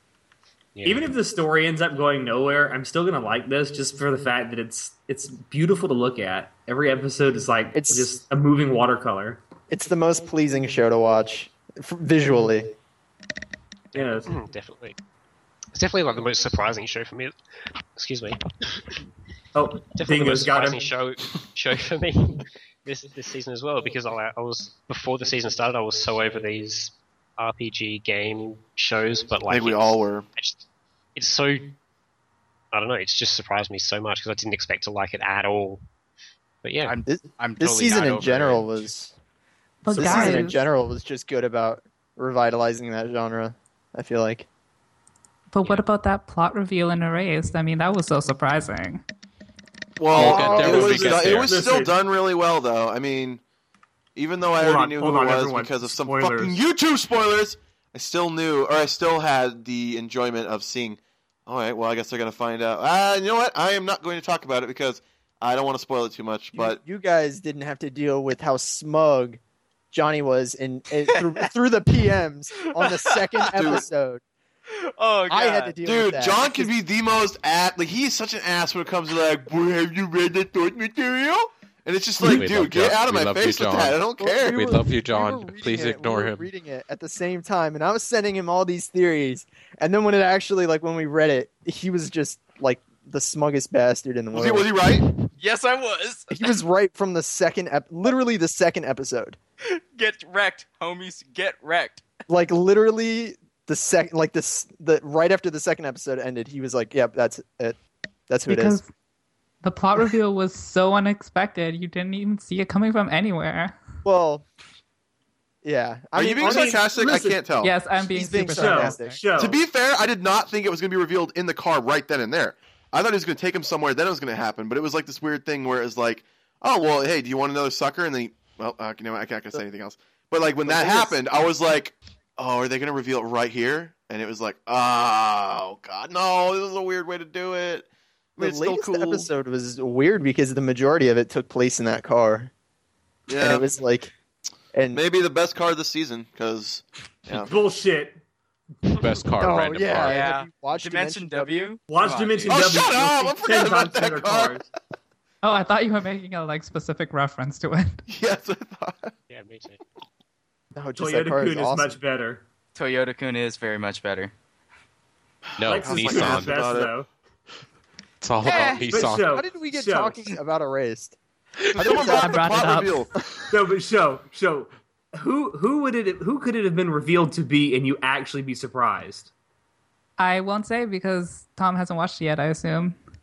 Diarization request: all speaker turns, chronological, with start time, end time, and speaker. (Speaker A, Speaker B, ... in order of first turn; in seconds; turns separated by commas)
Speaker A: 0.7-1.1, Speaker B: 0.8-9.4, Speaker C: 7.7-8.1, Speaker C: 9.7-12.7, Speaker A: 13.9-15.0, Speaker B: 13.9-14.3, Speaker A: 15.7-17.3, Speaker A: 17.9-19.0, Speaker B: 19.5-20.9, Speaker A: 19.9-30.6, Speaker D: 29.5-30.2, Speaker A: 31.1-31.8, Speaker A: 32.7-35.8, Speaker A: 36.6-36.9, Speaker E: 36.8-38.9, Speaker C: 37.1-39.1, Speaker F: 39.8-40.6, Speaker C: 39.9-44.5, Speaker E: 40.1-40.3, Speaker F: 45.5-49.0, Speaker D: 50.0-53.4, Speaker G: 50.1-51.6, Speaker C: 50.1-50.9, Speaker B: 50.3-52.0, Speaker D: 54.1-66.8, Speaker B: 54.6-56.6, Speaker C: 66.5-69.4, Speaker C: 69.9-74.2, Speaker E: 72.8-73.5, Speaker D: 73.5-73.9, Speaker E: 74.7-75.8, Speaker C: 75.3-76.7, Speaker D: 75.8-84.7, Speaker G: 82.2-86.4, Speaker C: 84.2-94.7, Speaker D: 94.3-95.0, Speaker E: 95.4-96.5, Speaker C: 96.3-99.4, Speaker E: 99.7-102.0, Speaker C: 102.3-107.8, Speaker C: 108.3-108.8, Speaker F: 108.5-108.9, Speaker F: 109.6-113.8, Speaker C: 114.0-114.4, Speaker C: 115.6-116.8, Speaker D: 116.1-117.7, Speaker B: 116.4-117.4, Speaker F: 117.6-119.2, Speaker C: 118.1-119.2, Speaker B: 118.6-119.6, Speaker D: 119.4-139.3, Speaker C: 130.6-131.2, Speaker C: 138.4-142.5, Speaker D: 143.3-143.7, Speaker C: 143.3-144.1, Speaker C: 144.7-145.0, Speaker D: 144.9-147.5, Speaker B: 147.3-148.2, Speaker G: 148.9-150.3, Speaker C: 149.4-151.7, Speaker E: 150.0-152.5, Speaker B: 151.9-154.7, Speaker D: 152.5-154.6, Speaker F: 155.4-158.0, Speaker D: 158.1-159.1, Speaker A: 159.3-159.8, Speaker C: 160.7-162.0, Speaker B: 161.0-162.4, Speaker E: 162.7-164.3, Speaker G: 165.6-166.5, Speaker D: 165.6-166.9, Speaker B: 165.6-167.1, Speaker G: 168.2-169.4, Speaker E: 168.4-168.9, Speaker B: 168.5-170.2, Speaker C: 169.3-171.2, Speaker D: 171.7-173.1, Speaker C: 171.9-172.2, Speaker F: 171.9-173.1, Speaker B: 173.5-179.3, Speaker F: 180.2-183.0